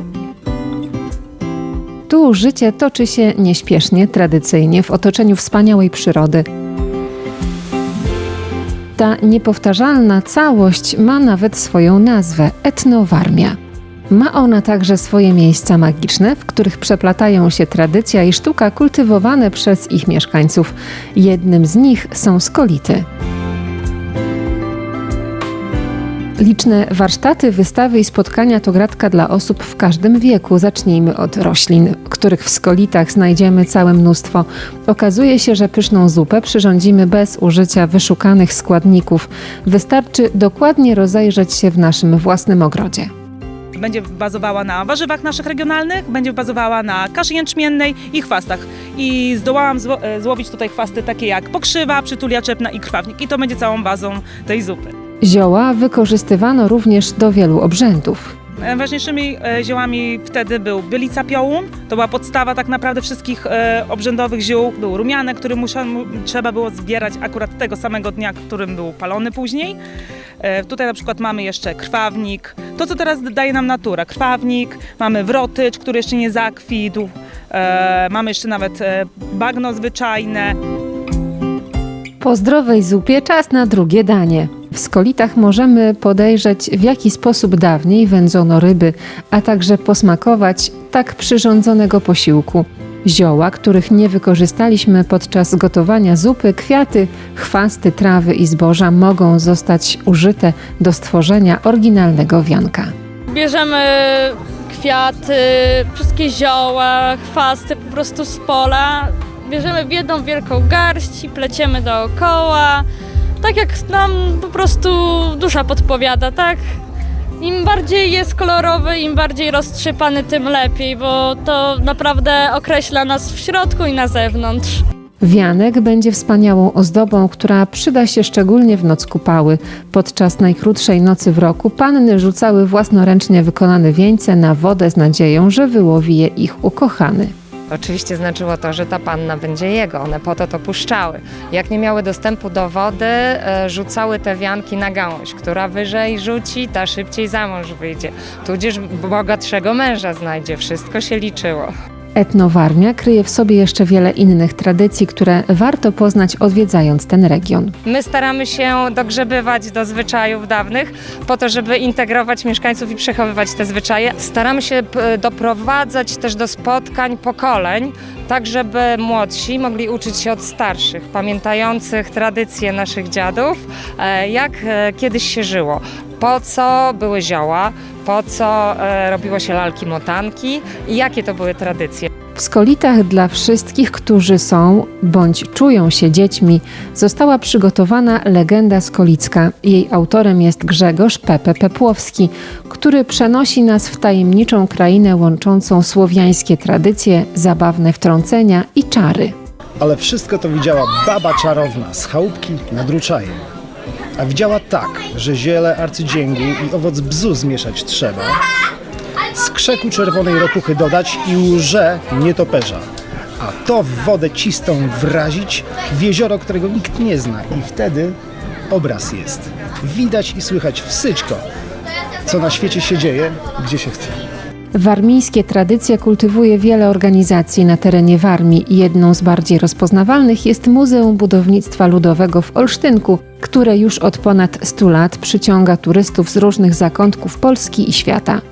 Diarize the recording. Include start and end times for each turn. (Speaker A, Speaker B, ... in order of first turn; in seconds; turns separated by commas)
Speaker A: 2.1-6.4, Speaker A: 8.9-13.6, Speaker A: 14.1-23.1, Speaker A: 26.4-43.1, Speaker B: 43.8-54.9, Speaker A: 55.2-58.3, Speaker B: 58.6-69.8, Speaker B: 70.4-80.5, Speaker A: 82.2-102.9, Speaker C: 103.3-112.8, Speaker C: 113.4-116.6, Speaker C: 117.4-124.8, Speaker A: 125.2-137.3, Speaker D: 137.7-151.7, Speaker A: 152.2-157.7, Speaker D: 157.8-182.1, Speaker A: 182.3-199.3, Speaker E: 199.8-203.4, Speaker E: 204.2-208.4, Speaker E: 209.3-212.8, Speaker E: 213.4-218.2, Speaker E: 218.7-221.4, Speaker E: 222.2-224.2, Speaker A: 224.7-238.4